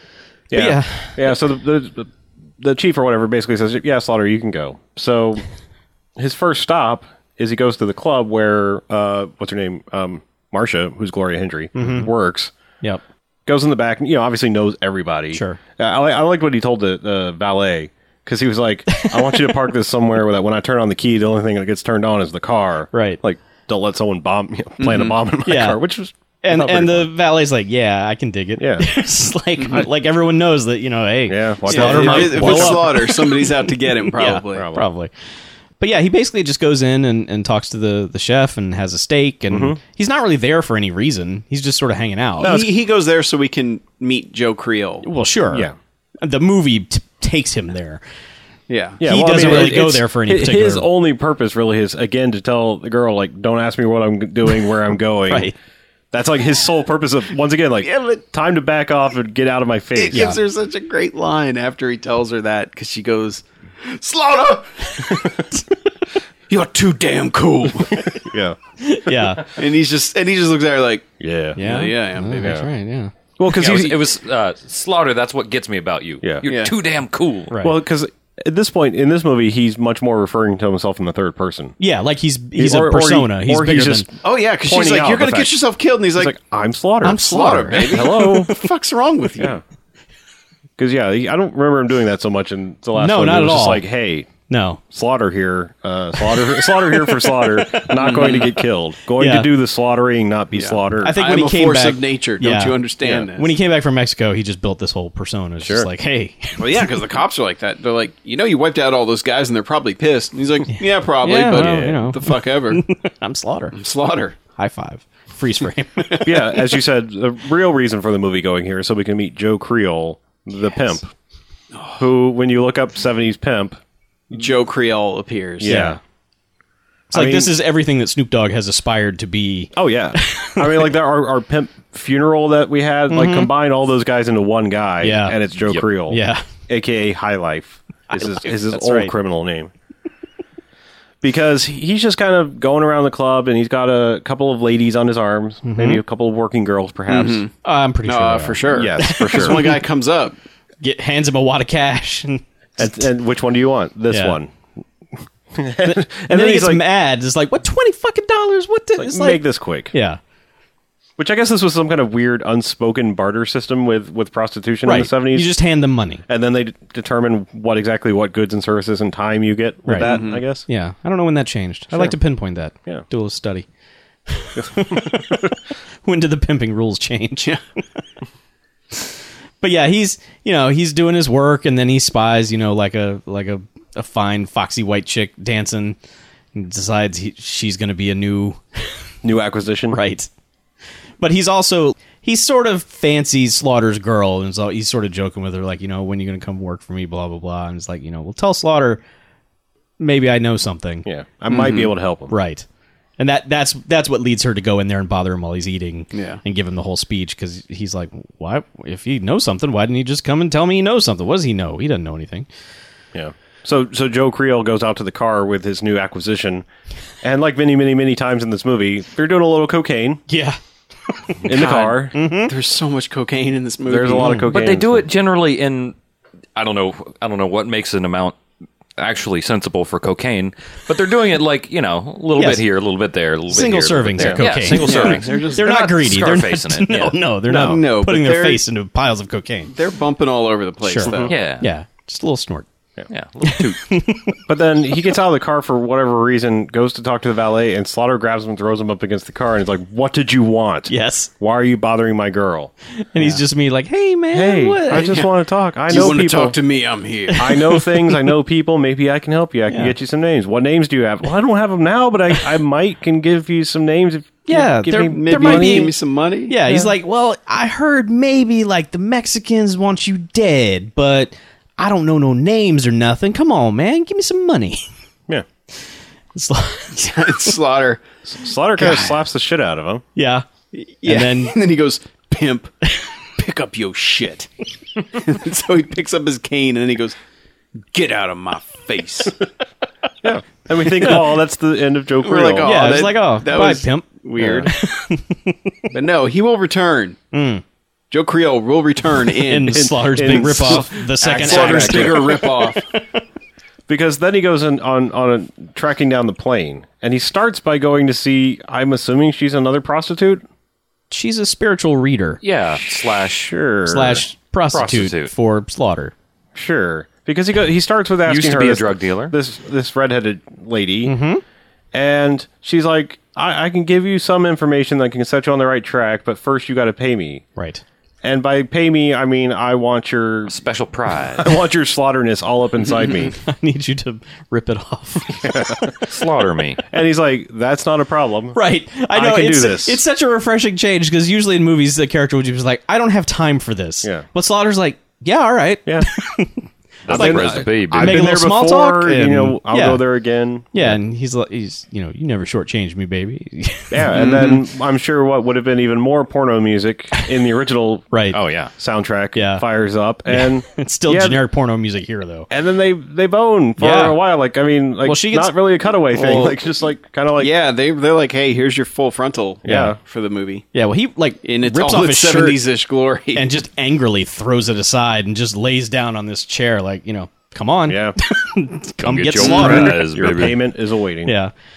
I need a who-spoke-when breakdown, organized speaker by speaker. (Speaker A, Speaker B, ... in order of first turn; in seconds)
Speaker A: 0.5-5.4, 6.2-12.5, 13.4-27.1, 28.6-28.9, 31.3-33.0, 34.5-34.9, 39.5-39.8, 42.4-42.7, 49.0-55.5, 56.1-60.4, 67.9-68.6, 71.2-71.7, 72.3-72.7, 73.4-74.0, 77.6-81.7, 82.5-84.1, 84.6-85.5, 86.1-88.5, 90.8-94.3, 94.9-101.2, 105.6-105.9, 111.5-112.0, 116.2-121.1, 122.0-123.8, 125.6-126.0, 127.1-127.5, 129.7-139.7, 141.2-147.4, 148.7-149.7, 152.8-154.5, 155.5-156.8, 159.0-159.9, 161.2-165.5, 166.3-170.6, 171.9-172.2, 174.6-175.3, 189.2-190.0, 201.0-202.3, 213.1-216.6, 217.2-220.2, 221.4-222.2, 223.8-225.1, 234.2-234.4, 237.5-237.8, 241.0-241.3, 244.4-252.7, 254.3-256.6, 257.3-265.9, 278.2-280.0, 290.2-292.9, 294.4-294.7, 299.7-302.5, 303.9-310.4, 312.8-314.2, 316.5-321.1, 321.9-327.4, 328.2-330.6, 331.4-333.4, 335.4-336.0, 336.9-338.6, 339.1-340.0, 347.1-351.0, 353.9-358.1, 358.8-361.4, 362.5-367.5, 369.6-370.0, 377.9-378.1, 379.4-381.3
Speaker B: 0.5-1.3, 11.7-12.1, 15.3-15.6, 18.9-19.6, 22.9-23.2, 25.4-25.8, 26.4-35.1, 35.8-42.5, 45.0-45.7, 46.2-48.0, 49.0-50.9, 55.3-55.5, 60.1-60.4, 68.8-69.5, 71.6-73.1, 77.5-77.7, 81.8-84.1, 87.0-88.1, 92.9-93.8, 94.5-94.8, 96.2-98.2, 99.2-99.5, 101.0-106.6, 110.8-113.7, 114.5-116.4, 125.7-126.0, 127.1-130.9, 133.1-133.5, 135.0-135.4, 136.1-136.4, 138.1-139.1, 145.6-146.0, 147.6-149.8, 150.8-153.1, 154.1-154.4, 155.8-160.2, 164.8-166.2, 169.8-170.1, 170.7-173.7, 174.3-177.6, 179.6-186.0, 186.5-188.6, 189.9-190.3, 191.2-199.0, 200.0-201.1, 202.3-202.6, 203.2-212.5, 220.3-220.6, 221.1-222.5, 224.2-224.5, 232.4-232.6, 233.5-239.7, 240.8-242.7, 243.4-244.3, 250.9-251.3, 253.1-255.2, 257.3-258.1, 264.5-265.9, 266.5-274.8, 276.3-277.3, 280.1-280.4, 281.0-281.5, 292.6-295.9, 297.3-297.6, 299.4-303.0, 311.1-312.4, 313.9-316.1, 321.0-321.4, 327.6-327.8, 333.2-335.9, 338.5-350.0, 350.7-354.6, 358.1-358.4, 359.4-359.6, 360.3-362.5, 363.8-364.2, 365.0-365.5, 366.1-366.5, 369.7-369.9, 370.7-372.6, 373.3-380.5, 381.2-381.5
Speaker C: 24.8-25.2, 31.7-34.7, 42.4-45.0, 48.7-49.7, 57.8-58.2, 60.0-65.4, 66.5-68.1, 69.5-72.5, 76.5-76.7, 84.2-86.3, 87.0-89.5, 97.9-98.5, 100.5-103.5, 106.6-112.8, 113.7-114.4, 121.7-122.0, 124.3-125.8, 147.1-147.5, 148.1-150.3, 170.0-170.4, 201.5-201.9, 206.1-206.4, 221.5-221.9, 222.4-224.4, 234.7-235.7, 237.5-238.6, 239.7-241.3, 254.9-255.3, 255.9-257.5, 265.0-266.9, 276.9-278.0, 278.8-279.2, 280.7-284.5, 285.0-287.1, 287.9-289.4, 292.2-294.7, 295.9-297.2, 298.1-302.8, 367.4-370.7, 371.4-373.5, 379.4-380.0
Speaker D: 73.5-77.5, 224.5-225.9, 226.6-228.4, 229.0-237.2, 241.3-241.7, 243.1-243.9, 312.4-313.5, 314.7-315.3, 318.2-319.3, 330.5-331.5, 336.1-336.8, 347.0-348.3, 358.3-358.7, 379.0-380.6